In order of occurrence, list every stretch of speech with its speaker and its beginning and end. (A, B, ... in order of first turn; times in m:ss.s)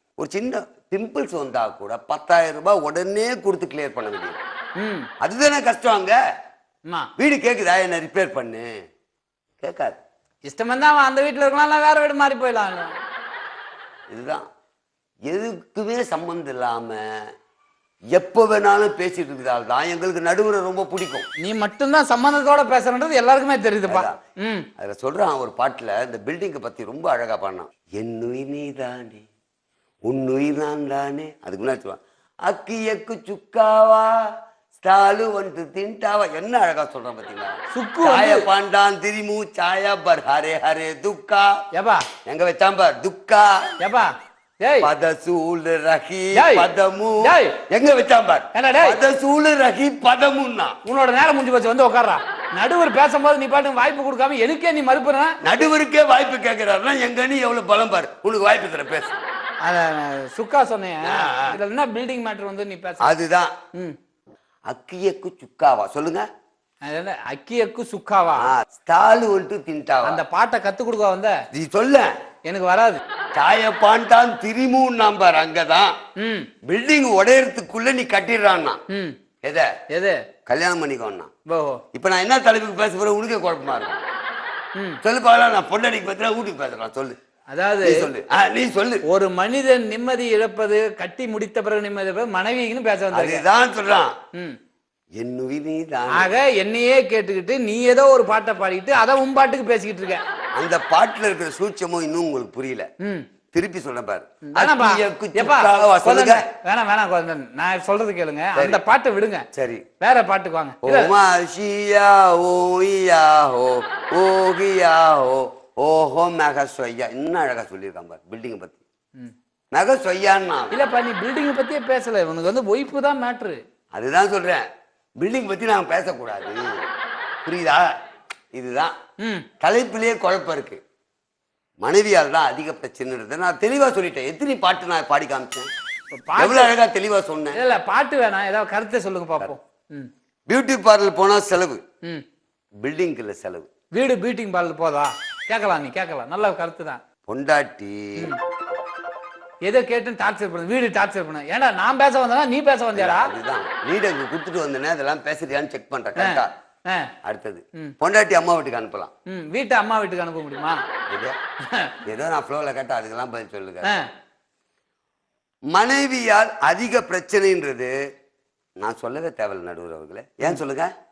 0:00.2-0:04.4 A
0:04.8-0:05.1 B
0:05.2-0:06.2 A
0:07.2-0:08.7 A
0:09.6-0:10.0 A
0:10.5-0:13.0 B
0:14.1-0:14.5 A
0:15.3-0:17.3 A
0:18.1-0:21.3 A
0:21.4-0:24.7 B
0:23.9-0:24.2 A
0:24.8-0:29.3 A
0:30.1-0:41.6 A
0:37.7-0:38.5 B
0:41.7-0:42.1 B
0:42.3-0:43.7 A
0:43.8-0:44.1 B
0:44.6-0:44.9 B
0:44.8-0:50.8 A
0:46.3-0:46.7 B
0:47.2-0:47.6 B
0:48.5-0:49.0 B
0:50.8-0:55.4 B
0:55.4-0:59.2 A
0:59.6-1:03.1 B
1:01.1-1:01.6 A
1:03.0-1:03.6 A
1:04.7-1:06.2 A
1:06.8-1:08.5 B
1:08.4-1:10.2 A
1:10.0-1:11.4 B
1:11.5-1:12.1 A
1:12.5-1:13.0 B
1:13.3-1:15.9 A
1:16.2-1:16.5 B
1:16.6-1:18.8 A
1:18.9-1:19.2 B
1:19.4-1:19.7 A
1:19.9-1:20.2 B
1:20.5-1:21.3 A
1:21.5-1:21.8 B
1:21.9-1:24.0 A
1:25.0-1:27.2 A
1:27.5-1:28.1 B
1:27.8-1:29.0 A
1:29.0-1:33.4 B
1:33.1-1:34.2 A
1:35.2-1:36.3 A
1:36.1-1:40.2 B
1:40.6-1:42.9 A
1:43.0-1:43.3 B
1:43.5-1:46.4 A
1:44.5-1:49.5 B
1:48.6-1:48.8 A
1:49.5-1:49.8 A
1:50.0-1:51.1 B
1:50.8-1:58.8 A
1:59.7-2:00.8 A
2:00.7-2:03.6 B
2:03.9-2:04.6 A
2:05.2-2:06.8 A
2:07.4-2:07.9 A
2:08.5-2:09.0 A
2:09.2-2:09.5 B
2:09.6-2:10.8 A
2:11.8-2:15.7 A
2:16.1-2:16.7 B
2:16.4-2:17.6 A
2:17.5-2:20.1 B
2:20.5-2:21.8 A
2:22.8-2:23.7 A
2:23.9-2:27.0 B
2:27.3-2:28.3 A
2:29.6-2:33.3 B
2:33.0-2:36.5 A
2:36.2-2:37.1 B
2:37.2-2:39.1 A
2:39.3-2:40.8 B
2:41.1-2:41.4 A
2:41.7-2:42.0 B
2:42.0-2:44.0 A
2:45.7-2:48.0 A
2:48.8-2:50.9 A